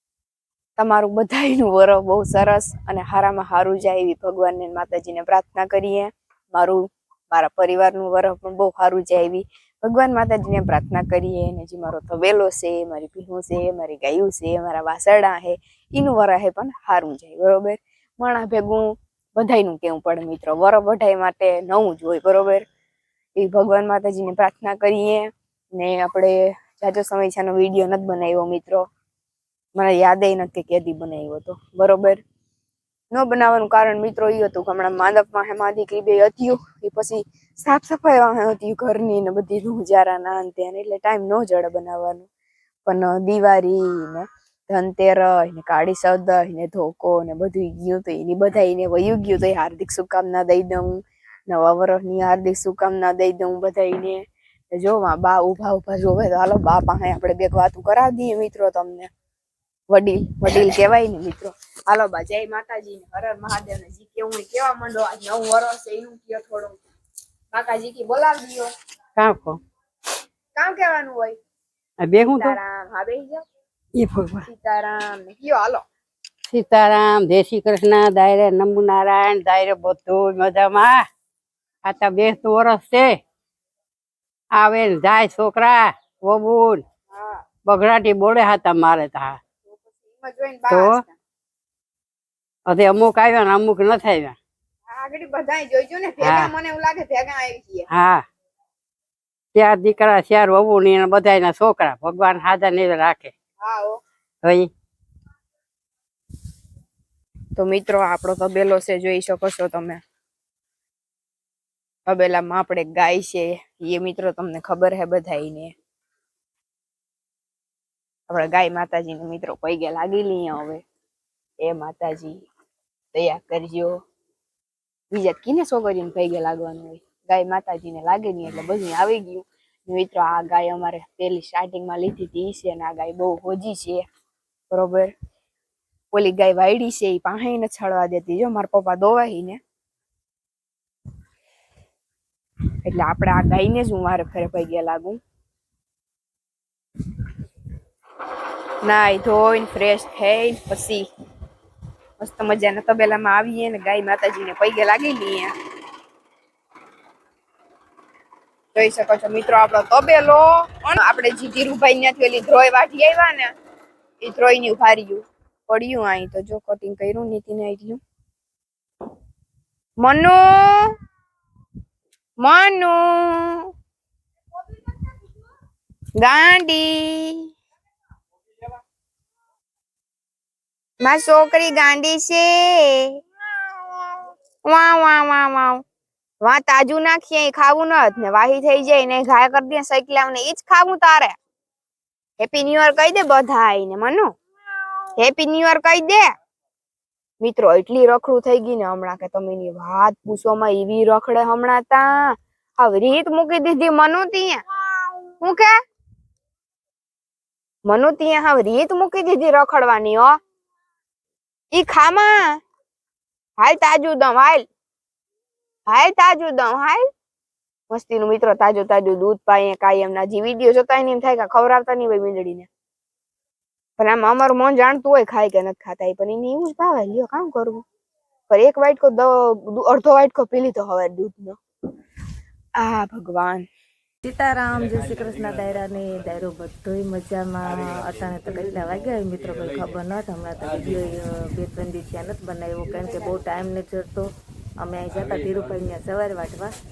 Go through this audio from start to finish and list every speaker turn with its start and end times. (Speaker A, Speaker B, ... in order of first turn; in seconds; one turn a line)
Speaker A: 0.8-22.6
Speaker A: 23.4-28.9
Speaker A: 29.8-32.2
Speaker A: 33.1-42.3
Speaker A: 42.9-59.1
Speaker A: 59.9-66.8
Speaker A: 67.5-68.7
Speaker B: 69.2-69.6
Speaker A: 70.5-71.4
Speaker B: 72.0-72.6
Speaker A: 72.2-73.4
Speaker B: 74.0-74.5
Speaker A: 74.5-75.8
Speaker B: 76.5-81.1
Speaker B: 81.8-83.2
Speaker B: 84.5-86.8
Speaker A: 87.1-87.4
Speaker B: 87.7-89.4
Speaker A: 89.7-91.2
Speaker B: 90.7-91.0
Speaker B: 92.7-94.4
Speaker A: 94.9-97.9
Speaker B: 96.2-96.5
Speaker B: 97.9-98.2
Speaker B: 99.5-103.3
Speaker A: 103.6-104.0
Speaker B: 104.4-104.7
Speaker A: 107.6-110.0
Speaker A: 112.1-115.7
Speaker A: 118.3-120.8
Speaker A: 121.6-122.5
Speaker A: 123.1-124.0
Speaker A: 125.1-134.1
Speaker A: 134.7-135.1
Speaker A: 136.1-139.6
Speaker A: 142.8-145.2
Speaker A: 148.8-151.1
Speaker A: 152.2-155.6
Speaker A: 158.8-163.5
Speaker A: 164.2-168.0
Speaker A: 170.0-171.0
Speaker A: 172.4-173.7
Speaker A: 176.2-177.5
Speaker A: 181.0-183.2
Speaker A: 184.6-185.8
Speaker A: 186.4-191.4
Speaker A: 192.4-194.3
Speaker A: 195.2-196.3
Speaker A: 197.4-204.6
Speaker A: 205.4-205.8
Speaker A: 207.9-210.4
Speaker A: 211.7-212.6
Speaker A: 213.6-214.7
Speaker A: 215.9-217.1
Speaker A: 217.9-222.7
Speaker A: 224.0-227.8
Speaker A: 228.5-231.6
Speaker A: 232.8-233.7
Speaker C: 234.2-246.8